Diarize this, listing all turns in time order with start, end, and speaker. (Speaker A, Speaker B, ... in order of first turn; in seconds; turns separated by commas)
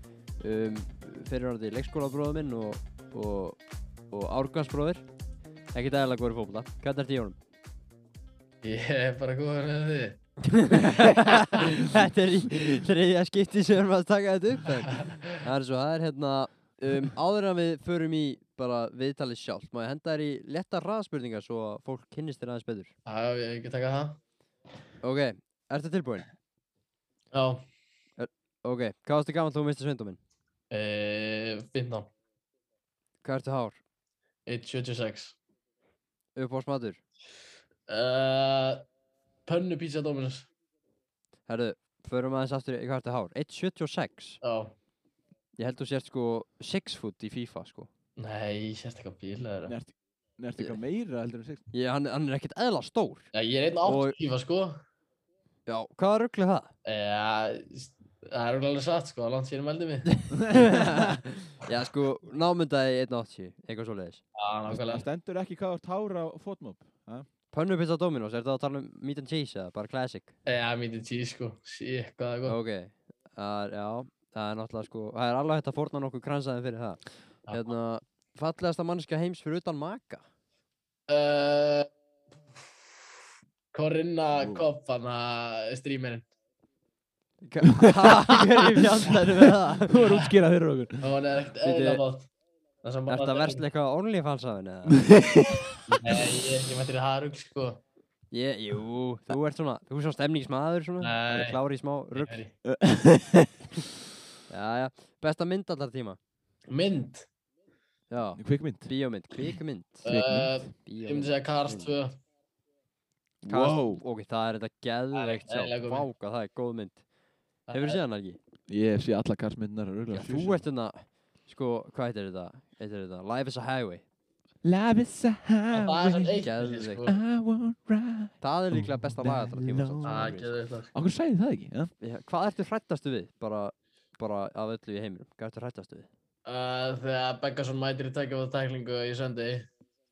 Speaker A: 0.4-3.6, Speaker A: 4.1-5.0, Speaker A: 5.7-7.4, Speaker B: 8.6-10.2, Speaker A: 10.5-22.9, Speaker B: 23.1-24.2, Speaker A: 25.0-26.3, Speaker B: 27.3-27.6, Speaker A: 28.2-30.2, Speaker B: 30.7-32.1, Speaker A: 33.2-33.8, Speaker B: 34.5-35.4, Speaker A: 36.4-37.0, Speaker B: 37.9-38.8, Speaker B: 39.5-40.5, Speaker A: 41.5-44.4, Speaker B: 44.4-44.7, Speaker A: 45.6-47.9, Speaker B: 48.2-49.8, Speaker C: 49.7-51.6, Speaker A: 51.7-53.3, Speaker B: 53.3-54.8, Speaker A: 53.9-54.2, Speaker A: 55.7-56.7, Speaker B: 56.9-60.1, Speaker A: 60.5-64.2, Speaker B: 64.4-65.0, Speaker C: 64.7-67.3, Speaker A: 67.5-70.3, Speaker B: 70.5-72.6, Speaker A: 72.5-80.2, Speaker B: 81.1-81.9, Speaker B: 83.7-86.3, Speaker A: 87.4-90.2, Speaker C: 89.8-91.1, Speaker B: 91.0-92.3, Speaker A: 91.6-92.0, Speaker B: 92.8-93.7, Speaker A: 93.1-95.0, Speaker C: 95.0-95.7, Speaker B: 95.9-97.8, Speaker A: 98.3-102.4, Speaker B: 101.0-101.6, Speaker B: 102.1-102.5, Speaker C: 102.7-103.5, Speaker A: 104.5-106.2, Speaker B: 106.7-107.3, Speaker A: 108.1-110.1, Speaker C: 108.4-108.9, Speaker B: 110.0-112.1, Speaker C: 110.1-110.7, Speaker A: 110.9-111.9, Speaker C: 113.4-114.0, Speaker A: 113.5-117.0, Speaker B: 115.1-116.1, Speaker B: 117.7-118.0, Speaker A: 117.7-118.4, Speaker C: 118.7-120.7, Speaker A: 120.1-124.0, Speaker C: 124.6-126.5, Speaker B: 125.7-127.2, Speaker A: 126.4-127.1, Speaker C: 127.0-130.3, Speaker A: 128.4-130.5, Speaker B: 130.0-130.9, Speaker C: 130.9-131.9, Speaker A: 132.0-136.1, Speaker B: 136.4-139.7